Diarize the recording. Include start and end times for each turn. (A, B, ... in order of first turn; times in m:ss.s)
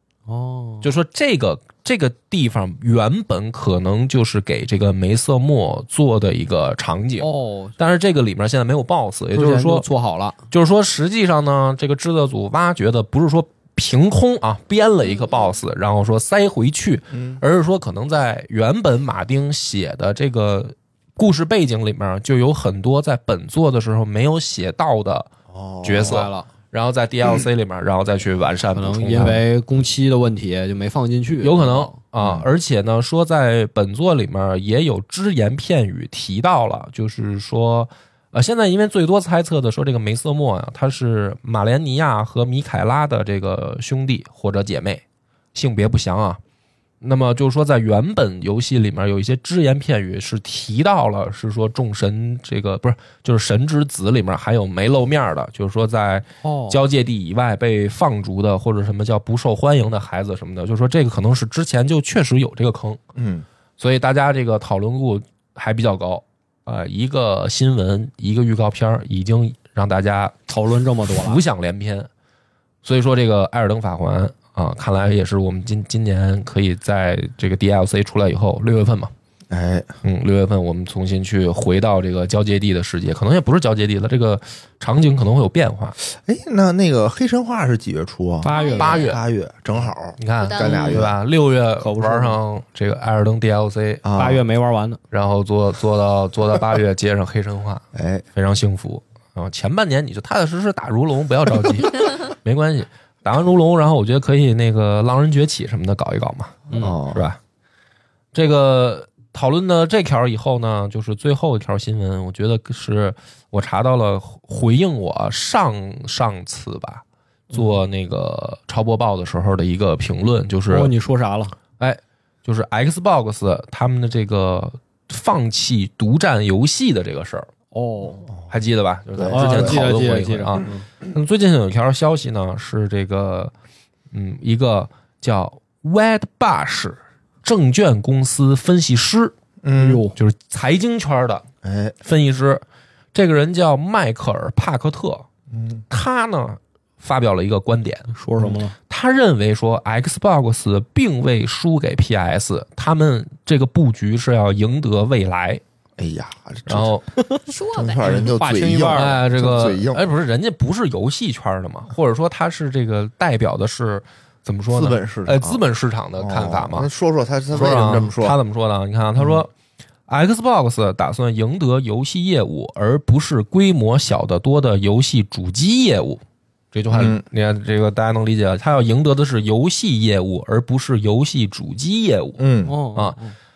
0:00.3-0:00.9 A
0:00.8-0:09.8 B
0:07.2-0:07.7 A
0:09.3-0:10.4 A
0:10.5-0:25.3 B
0:15.0-0:15.5 C
0:17.1-0:17.4 D
0:25.5-0:26.2 D
0:25.8-0:29.4 B
0:26.0-0:26.5 A
0:28.7-0:31.9 A
0:31.4-0:45.0 B
0:32.2-0:32.5 D
0:45.5-0:46.4 B
0:47.0-1:03.0 B
0:56.4-0:56.8 A
1:03.1-1:03.4 D
1:03.8-1:10.4 B
1:10.5-1:11.4 A
1:11.2-1:12.1 B
1:12.8-1:19.1 B
1:19.5-1:19.9 D
1:20.0-1:26.0 B
1:26.0-1:31.1 D
1:28.4-1:29.0 A
1:28.5-1:29.1 C
1:28.8-1:29.2 B
1:30.2-1:34.0 B
1:30.4-1:31.0 C
1:31.8-1:32.4 A
1:34.0-1:34.4 D
1:34.2-1:35.0 A
1:35.1-1:47.4 B
1:37.9-1:38.2 D
1:46.7-1:47.2 D
1:48.3-2:00.9 B
2:00.7-2:01.5 A
2:01.8-2:07.5 B
2:07.7-2:08.2 A
2:08.5-2:13.5 B
2:09.1-2:09.8 D
2:09.3-2:10.8 A
2:14.1-2:19.3 B
2:19.6-2:20.0 D
2:19.7-2:20.2 A
2:20.2-2:21.4 B
2:21.6-2:22.0 D
2:22.0-2:25.3 B
2:25.5-2:25.8 D
2:25.9-2:28.1 B
2:28.1-2:28.7 A
2:28.9-2:35.6 B
2:36.0-2:37.0 D
2:36.7-2:37.0 B
2:37.5-2:38.3 C
2:37.7-2:40.0 D
2:38.0-2:39.2 A
2:38.9-2:46.9 B
2:44.7-2:45.6 D
2:46.2-2:48.4 D
2:47.5-2:49.5 B
2:50.1-2:56.2 B
2:56.7-3:03.2 B
2:56.9-2:57.2 D
3:02.4-3:02.7 D
3:02.6-3:03.3 A